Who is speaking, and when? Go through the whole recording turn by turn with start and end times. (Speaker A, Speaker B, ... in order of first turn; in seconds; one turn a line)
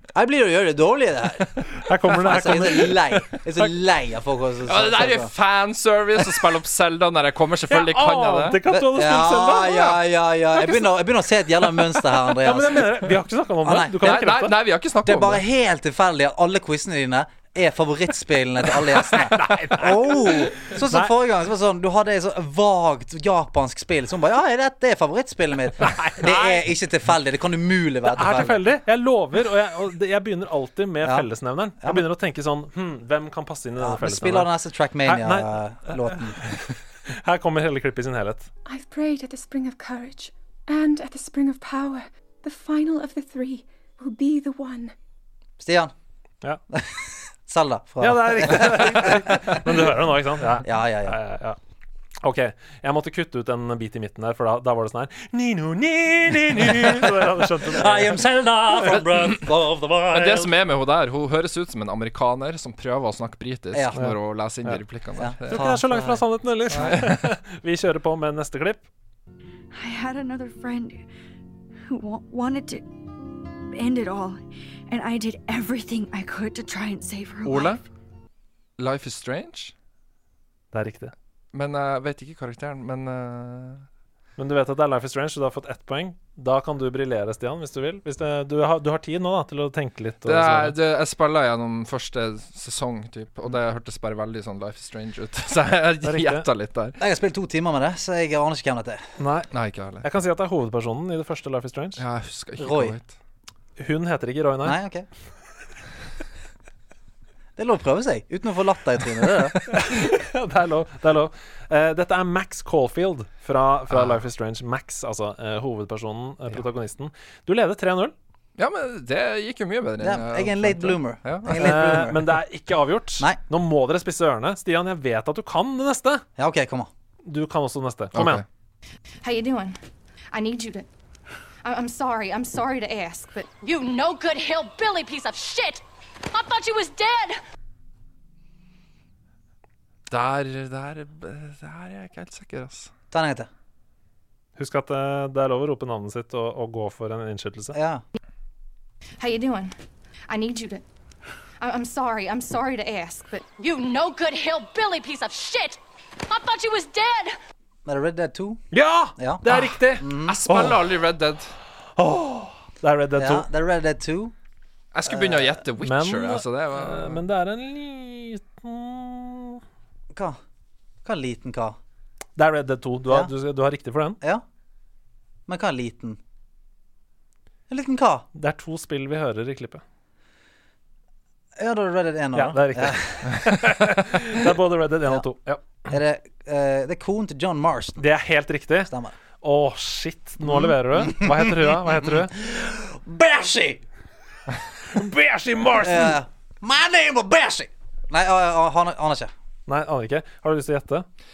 Speaker A: 0.1-5.3
Speaker B: 1.7-3.7
Speaker C: 4.7-8.6
Speaker B: 7.7-10.0
Speaker A: 8.7-12.9
Speaker B: 10.5-11.0
Speaker B: 11.6-14.5
Speaker A: 13.6-14.0
Speaker C: 14.0-15.4
Speaker A: 15.1-28.6
Speaker B: 18.7-21.1
Speaker B: 25.8-26.7
Speaker B: 28.1-38.5
Speaker A: 31.8-32.0
Speaker A: 33.8-36.5
Speaker D: 38.6-44.9
Speaker A: 45.6-45.9
Speaker A: 46.7-49.7
Speaker B: 48.0-51.6
Speaker A: 50.6-51.2
Speaker B: 52.2-59.0
Speaker A: 57.6-60.5
Speaker C: 58.8-59.4
Speaker C: 60.1-65.7
Speaker B: 64.0-64.8
Speaker A: 65.2-67.0
Speaker B: 65.5-68.8
Speaker C: 66.7-67.3
Speaker E: 69.7-71.0
Speaker E: 71.9-72.8
Speaker E: 73.7-77.8
Speaker C: 77.4-77.8
Speaker C: 78.8-79.7
Speaker B: 80.7-81.1
Speaker C: 81.5-83.8
Speaker B: 84.4-90.8
Speaker C: 90.2-97.0
Speaker B: 96.0-96.5
Speaker A: 97.0-99.0
Speaker B: 99.2-102.0
Speaker C: 99.5-100.1
Speaker C: 102.0-103.1
Speaker A: 102.6-103.0
Speaker B: 103.8-104.8
Speaker A: 104.6-105.1
Speaker A: 107.6-109.7
Speaker B: 109.7-118.1
Speaker C: 118.6-121.8
Speaker A: 120.0-122.3
Speaker B: 121.5-126.2
Speaker A: 126.4-126.9
Speaker B: 127.2-128.4
Speaker C: 128.1-128.4
Speaker F: 129.2-129.8
Speaker F: 130.3-130.9
Speaker F: 131.6-137.4
Speaker C: 140.1-142.9
Speaker A: 143.1-143.5
Speaker B: 144.6-147.8
Speaker A: 147.7-148.0
Speaker F: 149.2-149.7
Speaker F: 150.3-150.8
Speaker F: 151.6-157.4
Speaker A: 157.8-158.6
Speaker B: 158.7-160.8
Speaker A: 159.2-160.4
Speaker C: 160.2-161.5
Speaker B: 161.9-163.5
Speaker A: 163.2-164.3
Speaker C: 164.9-167.2
Speaker A: 165.1-165.6
Speaker B: 165.8-169.6
Speaker A: 170.1-170.4
Speaker A: 171.0-171.8
Speaker B: 172.3-174.2
Speaker A: 175.5-176.2
Speaker A: 177.7-178.2
Speaker B: 178.3-179.8
Speaker A: 181.6-183.3
Speaker B: 182.3-185.7
Speaker A: 185.8-188.0
Speaker B: 188.0-188.9
Speaker A: 188.9-189.2
Speaker B: 189.4-192.3
Speaker A: 190.4-193.8
Speaker B: 194.8-196.2
Speaker A: 195.8-199.3
Speaker B: 199.7-201.1